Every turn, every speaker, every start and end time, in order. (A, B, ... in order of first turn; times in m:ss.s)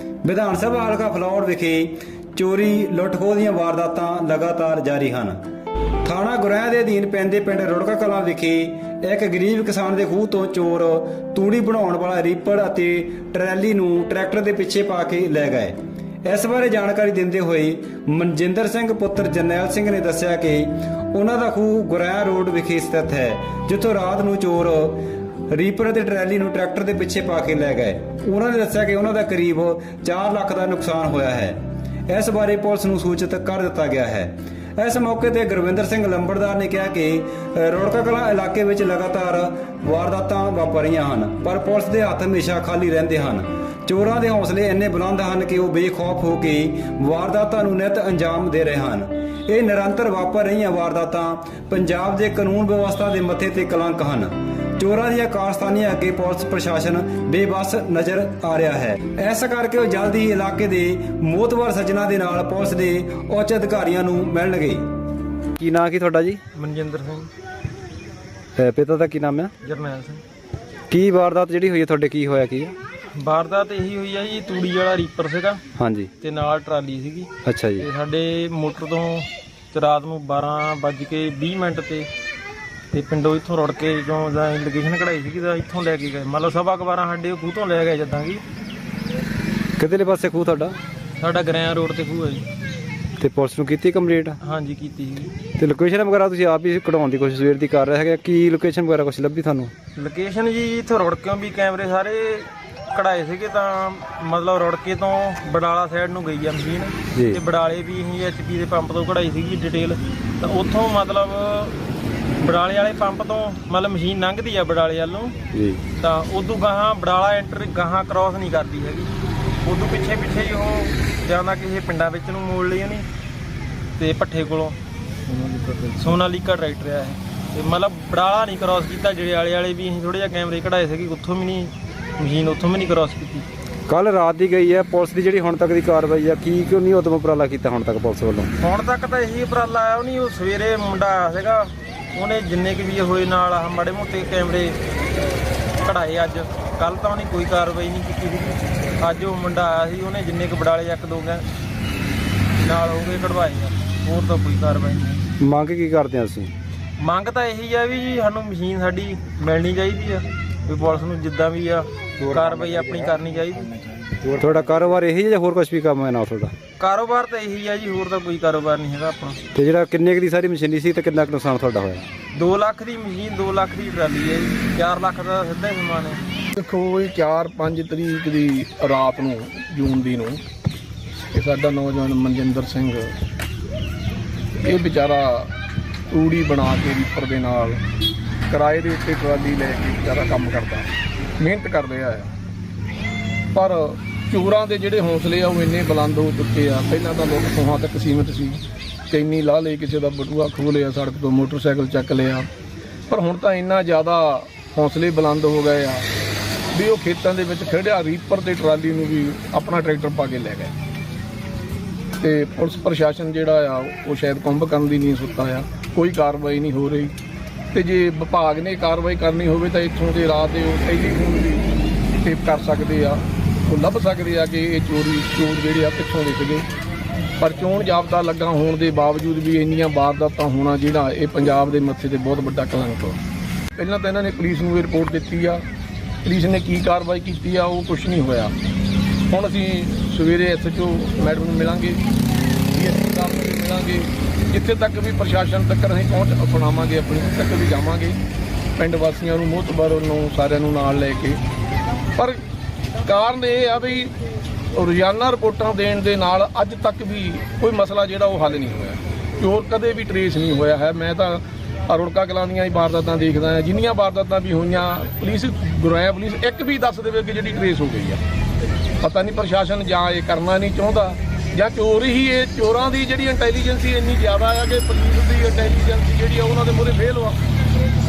0:00.2-0:05.4 A
0:06.0-1:04.8 A
1:05.6-1:06.4 A
1:06.5-1:07.3 B
1:08.6-1:09.5 A
1:09.6-1:10.2 B
1:10.9-1:12.7 A
1:13.1-1:15.6 B
1:15.8-1:16.1 A
1:16.2-1:22.1 B
1:17.4-1:17.9 A
1:22.9-1:28.4 B
1:29.8-1:30.7 A
1:31.2-1:32.4 B
1:33.2-1:34.4 A
1:34.4-1:35.3 B
1:35.6-1:39.7 A
1:40.0-1:51.8 B
1:52.4-1:55.4 B
1:55.5-1:55.8 A
1:56.0-1:59.1 B
1:59.6-2:03.0 B
2:04.0-2:04.8 B
2:05.4-2:05.8 A
2:06.0-2:13.4 B
2:13.9-2:18.5 A
2:18.6-2:24.8 B
2:25.8-2:31.4 B
2:32.6-2:35.2 B
2:35.4-2:36.5 A
2:37.0-2:43.7 B
2:44.3-2:46.5 A
2:46.8-2:49.4 B
2:49.5-2:52.0 A
2:52.3-2:56.2 B
2:56.5-3:00.4 C
3:01.3-3:03.1 C
3:04.6-3:05.5 C
3:06.1-3:07.8 C
3:08.5-3:12.3 C
3:13.5-3:22.5 C
3:23.1-3:26.1 C
3:26.7-3:30.7 C
3:32.2-3:37.1 C
3:37.7-3:41.7 C
3:42.2-3:46.7 C
3:47.4-3:53.2 C
3:53.7-3:55.6 C
3:56.2-3:58.5 C
3:59.3-4:02.0 C
4:02.7-4:08.2 C
4:08.8-4:11.4 C
4:12.2-4:12.4 C
4:13.0-4:14.1 C
4:14.7-4:28.2 C
4:29.0-4:37.4 C